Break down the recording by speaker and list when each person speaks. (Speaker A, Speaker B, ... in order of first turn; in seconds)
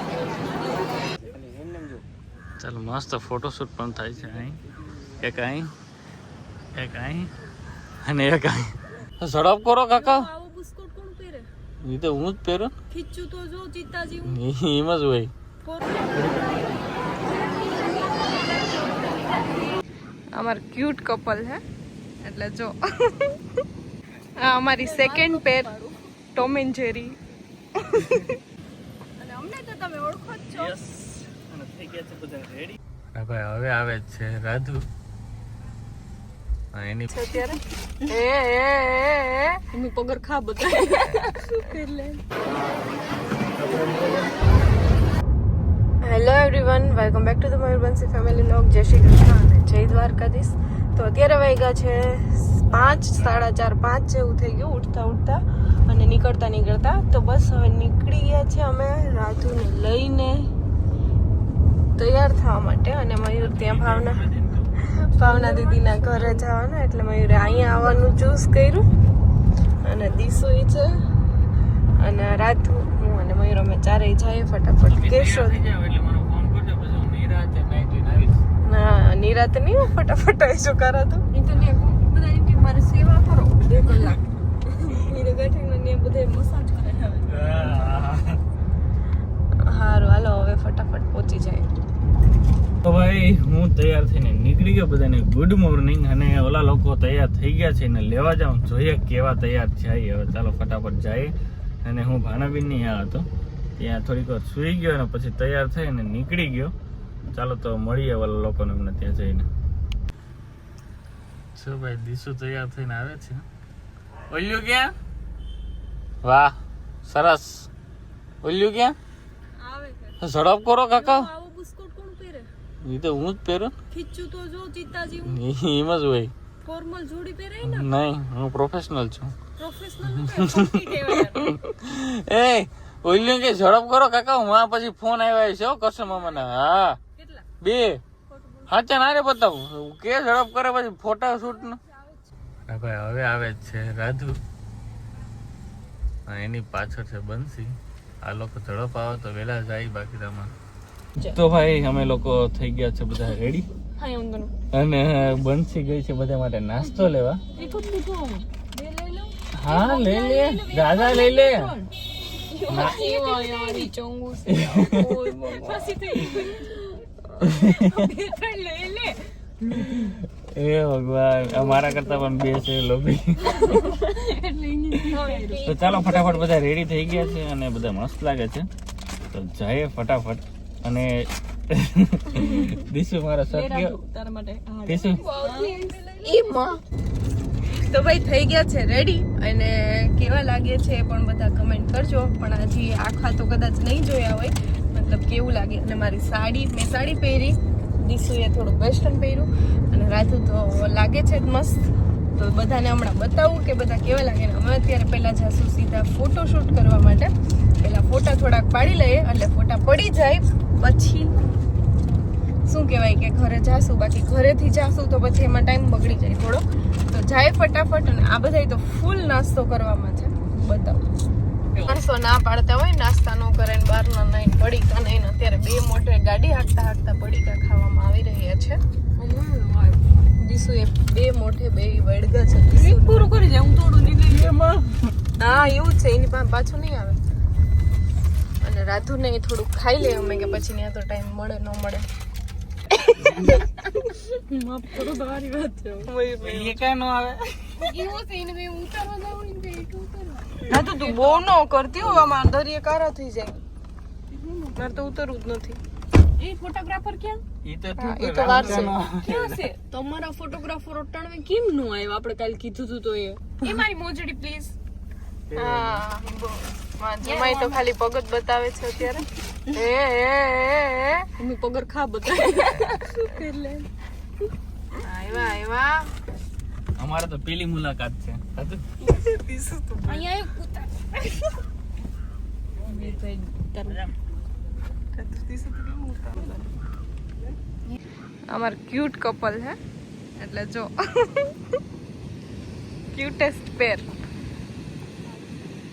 Speaker A: 2.6-4.6, 5.2-5.7, 6.8-7.3, 8.0-10.3, 11.8-12.7, 14.2-15.3, 30.5-34.8, 36.7-37.1, 43.6-44.2, 63.4-64.7, 74.9-78.4, 87.3-88.4, 92.8-101.3, 101.8-103.2, 103.8-106.7, 107.3-109.5, 111.5-113.4, 114.3-114.9, 116.2-117.7, 118.4-119.0, 120.2-121.3, 122.8-123.7, 125.2-126.3, 127.6-129.3, 130.2-137.0, 137.6-138.0, 138.7-141.8, 142.7-144.3, 146.3-147.7, 148.2-150.5, 151.2-153.7, 154.7-157.4, 159.6-161.7, 162.7-163.0, 164.5-165.2, 167.4-167.9, 169.8-173.9, 175.6-178.7, 179.3-181.1, 181.7-184.0, 184.8-185.2, 221.7-222.0, 246.4-248.0, 257.6-259.6, 265.5-266.0, 277.0-278.8, 283.8-284.1
Speaker B: 9.9-11.5, 12.9-14.4, 15.6-16.6, 17.4-18.3, 24.8-25.9, 29.2-30.8, 37.3-37.6, 39.7-42.2, 65.1-66.4, 67.7-68.0, 81.3-87.8, 119.6-120.1, 120.9-122.5, 123.9-125.4, 126.6-127.9, 129.6-131.6, 137.2-137.5, 138.3-138.8, 154.0-154.5, 157.5-161.9, 162.5-163.9, 165.4-166.9, 167.5-170.1, 173.4-176.4, 183.5-186.5, 229.2-230.0, 232.7-234.8, 244.4-246.1, 247.8-251.4, 254.3-254.9, 256.4-257.4, 258.5-258.9, 259.8-264.7, 267.2-267.8, 269.0-269.8, 271.4-273.9, 280.1-281.6, 282.9-284.0, 285.1-286.7
Speaker C: 20.4-21.6, 22.2-23.4, 24.4-25.7, 26.4-27.1, 27.9-28.2, 37.1-39.6, 40.8-41.2, 46.0-60.5, 62.0-64.2, 65.1-68.8, 69.8-71.0, 72.0-75.6, 78.7-81.2, 83.7-84.2, 89.6-91.7, 162.7-165.8, 175.1-176.0, 185.1-186.8, 187.7-211.4, 212.7-221.0, 221.9-228.8, 230.4-233.3, 235.4-237.2, 238.6-242.1, 243.1-244.0, 246.1-246.8, 250.7-253.6, 254.8-255.8, 258.0-259.7, 265.6-271.3, 275.0-276.1, 279.1-280.2, 288.5-289.8, 290.4-291.5, 293.1-294.1